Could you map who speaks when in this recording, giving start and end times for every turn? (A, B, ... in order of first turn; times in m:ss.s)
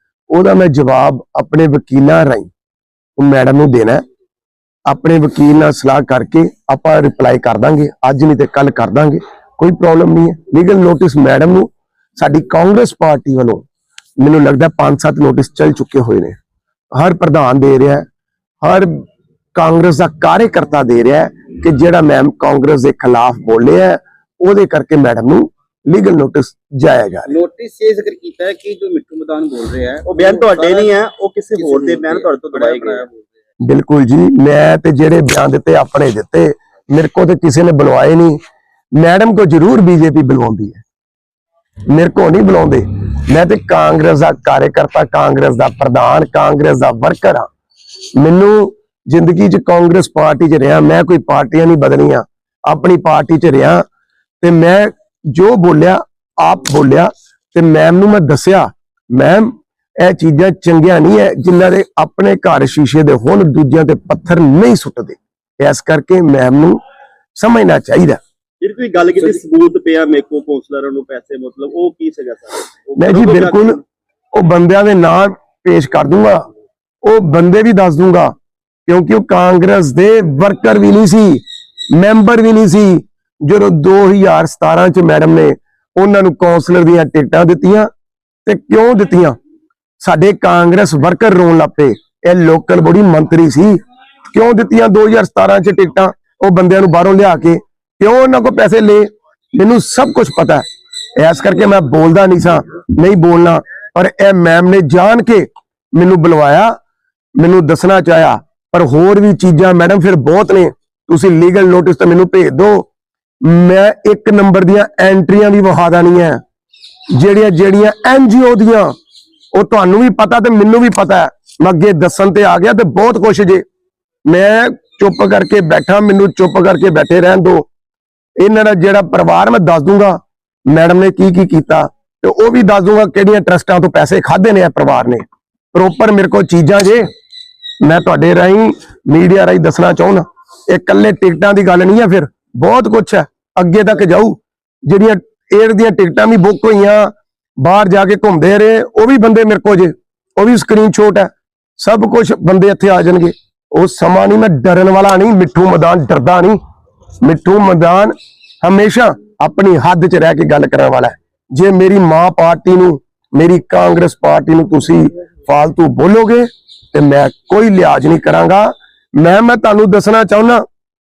0:00.3-0:02.5 A
0:03.2-0:04.0 A
0:04.9-0:13.6 A
0:14.2-0:16.4 A
0:17.0-0:18.0 A
0:18.6-0:19.0 A
0:19.5-0:27.3 A
0:27.3-0:31.0 B
0:30.0-0:33.0 C
0:31.5-0:33.3 B
0:33.6-0:38.4 A
0:39.0-0:40.8 A
0:41.9-0:47.5 A
0:48.2-0:53.8 A
0:54.4-1:06.8 A
1:07.4-1:08.2 A
1:08.6-1:13.8 C
1:13.0-1:13.8 A
1:14.3-1:16.4 A
1:17.0-1:18.3 A
1:18.9-1:27.9 A
1:28.4-1:29.4 A
1:30.0-1:33.8 A
1:34.3-1:40.6 A
1:41.2-1:46.7 A
1:47.4-1:52.9 A
1:53.4-1:56.4 A
1:57.1-1:58.9 A
1:59.5-2:03.6 A
2:04.3-2:07.6 A
2:08.4-2:15.2 A
2:15.7-2:17.1 A
2:17.8-2:36.6 A
2:37.2-2:50.6 A